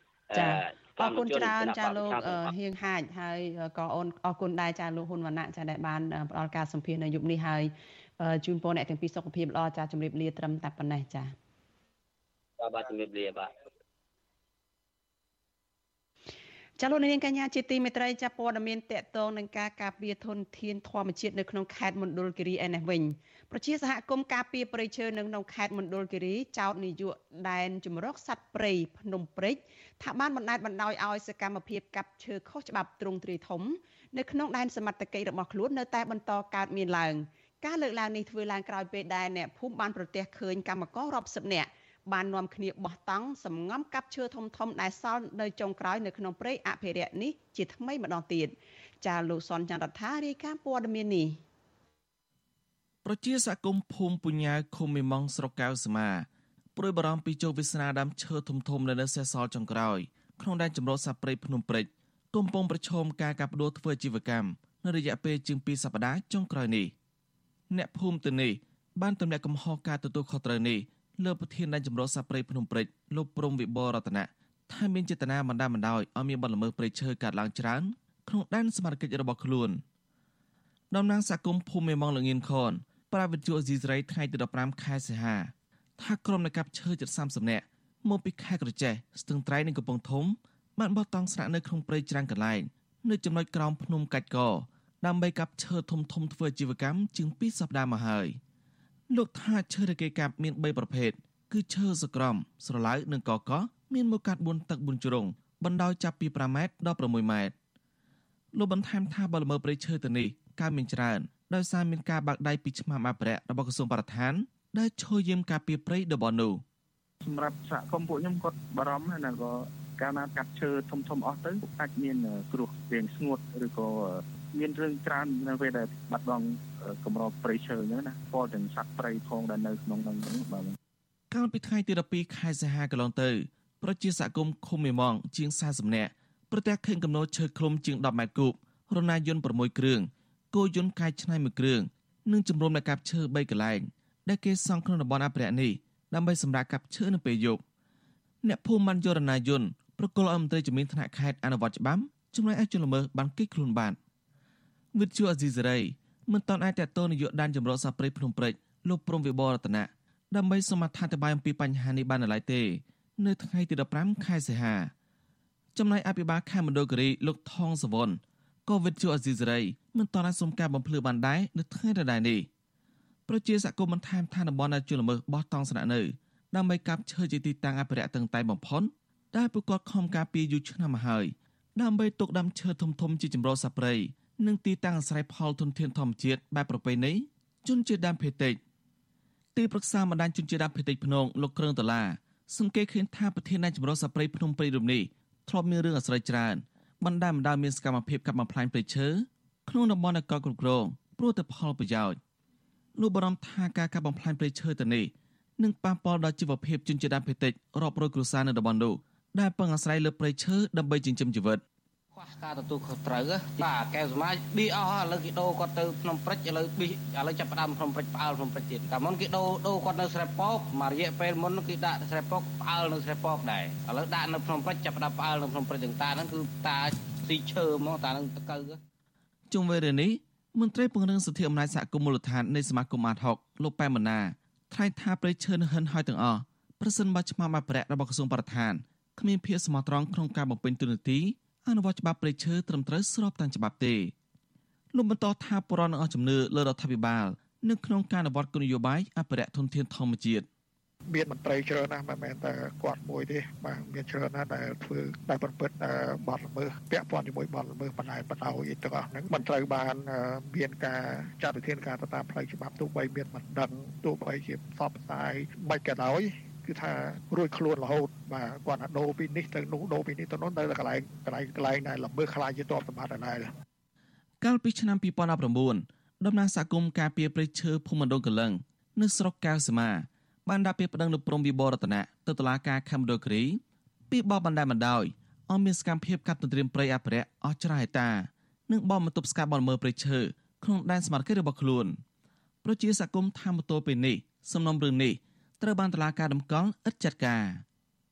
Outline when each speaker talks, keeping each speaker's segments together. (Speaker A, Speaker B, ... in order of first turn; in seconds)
Speaker A: 0.3-2.5, 12.6-13.5
Speaker B: 0.3-11.3, 16.8-51.4
Speaker C: 53.0-66.9, 67.7-79.8, 80.9-98.4, 99.1-107.5, 108.5-116.6, 131.3-147.6, 148.4-154.0, 154.9-164.9, 165.7-172.5, 173.3-188.6, 189.5-202.2, 202.9-211.6, 229.5-244.1, 244.9-250.5, 274.4-292.0, 292.6-297.6
Speaker D: 117.2-130.8
Speaker E: 212.1-228.8
Speaker F: 251.1-273.5